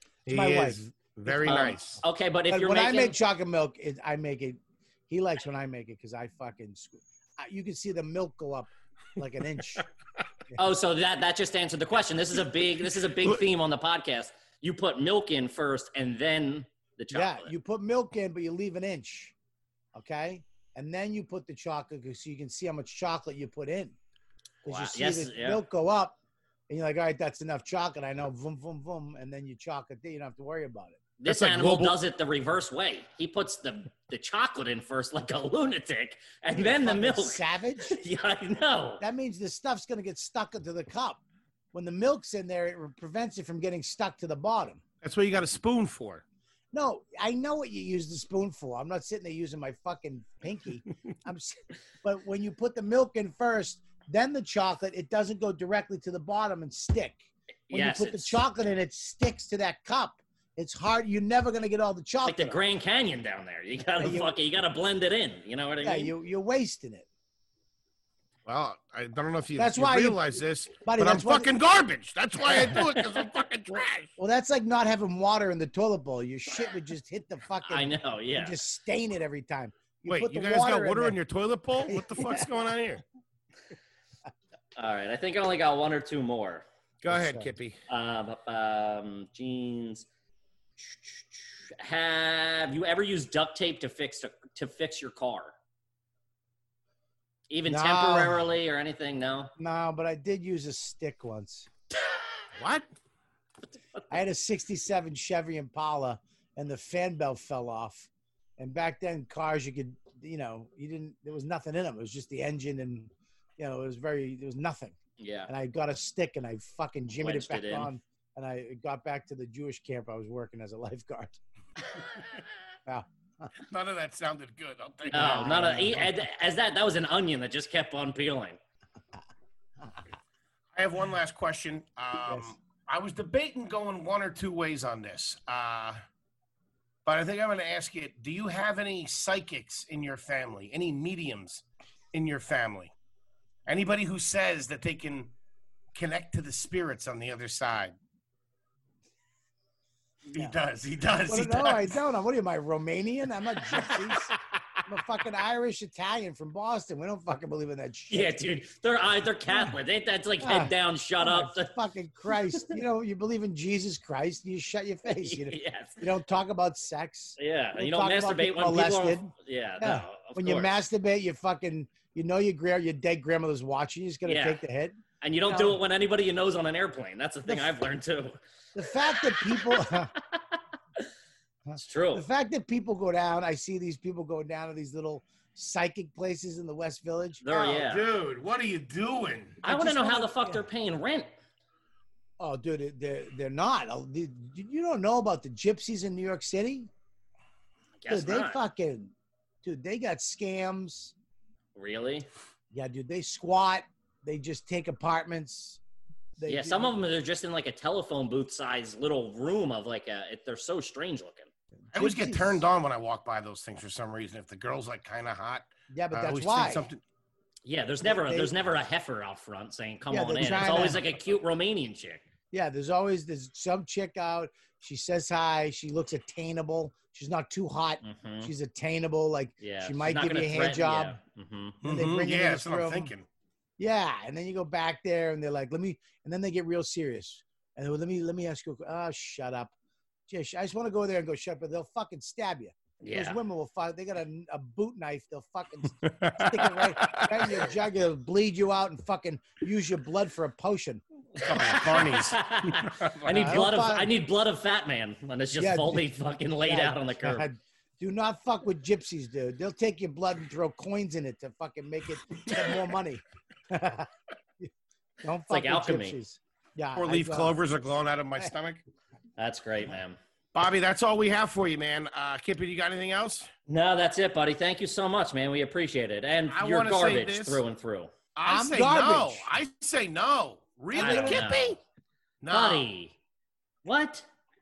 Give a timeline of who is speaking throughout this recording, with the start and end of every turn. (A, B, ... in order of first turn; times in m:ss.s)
0:00.2-0:02.0 A
0:00.3-0:09.8 B
0:01.4-0:03.2 C
0:10.6-0:17.5 C
0:17.1-0:19.3 B
0:19.9-0:24.0 B
0:24.6-0:26.2 B
0:24.6-0:25.6 C
0:26.7-0:31.0 B
0:31.2-0:39.0 C
0:31.2-0:32.0 A
0:36.5-0:37.9 B
0:39.0-0:41.2 B
0:41.7-0:44.8 B
0:45.0-0:46.2 A
0:46.7-1:02.6 B
0:57.7-0:58.4 C
1:02.2-1:06.1 C
1:04.0-1:04.3 B
1:05.8-1:07.1 B
1:08.4-1:14.1 A
1:09.6-1:11.5 B
1:13.7-1:21.2 B
1:17.6-1:18.6 C
1:20.1-1:23.0 A
1:21.8-1:22.5 B
1:24.8-1:26.6 C
1:27.0-1:27.8 A
1:27.1-1:27.5 B
1:27.9-1:30.0 C
1:30.8-1:35.5 C
1:37.5-1:39.5 C
1:37.7-1:38.4 B
1:39.6-1:41.7 B
1:42.6-1:42.9 A
1:44.1-1:55.0 B
1:55.2-1:55.5 C
1:55.5-2:01.4 B
1:57.2-1:57.9 C
2:02.9-2:03.5 B
2:03.6-2:05.8 A
2:05.1-2:08.6 C
2:05.1-2:06.1 B
2:10.7-2:16.0 A
2:17.0-2:22.9 A
2:23.7-2:25.3 A
2:25.9-2:28.0 A
2:30.3-2:32.0 A
2:31.3-2:34.3 B
2:34.8-2:38.3 B
2:38.1-2:41.7 C
2:40.4-2:55.8 B
2:42.4-2:42.7 C
2:45.2-2:46.0 C
2:47.4-2:50.7 C
2:54.2-2:54.6 C
2:55.2-2:58.4 C
2:57.4-2:57.7 B
2:58.7-3:00.1 B
2:59.2-3:01.1 C
3:01.7-3:07.8 B
3:01.8-3:02.2 C
3:07.4-3:08.0 C
3:07.6-3:09.6 A
3:09.6-3:10.6 B
3:09.6-3:11.3 C
3:12.4-3:16.9 B
3:18.0-3:18.6 C
3:18.1-3:19.1 B
3:19.6-3:21.1 B
3:21.7-3:22.3 C
3:22.7-3:25.8 B
3:26.4-3:27.0 B
3:26.5-3:31.5 C
3:31.9-3:32.6 B
3:31.9-3:37.0 A
3:35.9-3:36.9 B
3:37.6-3:42.2 C
3:38.0-3:38.5 B
3:40.1-3:41.0 B
3:42.5-3:51.2 B
3:48.0-3:48.5 C
3:49.6-3:51.8 C
3:51.8-3:53.1 B
3:51.8-3:53.2 A
3:53.8-3:59.7 B
4:00.3-4:11.0 B
4:03.0-4:03.4 C
4:06.0-4:07.6 A
4:11.4-4:13.5 A
4:11.4-4:17.5 C
4:13.3-4:14.1 B
4:15.6-4:16.1 B
4:16.6-4:24.7 B
4:25.2-4:27.6 B
4:25.5-4:26.2 C
4:27.0-4:28.8 A
4:29.4-4:30.2 C
4:30.5-4:33.5 A
4:33.7-4:38.1 C
4:36.5-4:37.6 A
4:38.4-4:41.8 A
4:38.4-4:39.4 B
4:40.9-4:41.6 B
4:40.9-4:41.8 C
4:42.4-4:42.9 A
4:42.5-4:43.1 C
4:43.8-4:44.2 C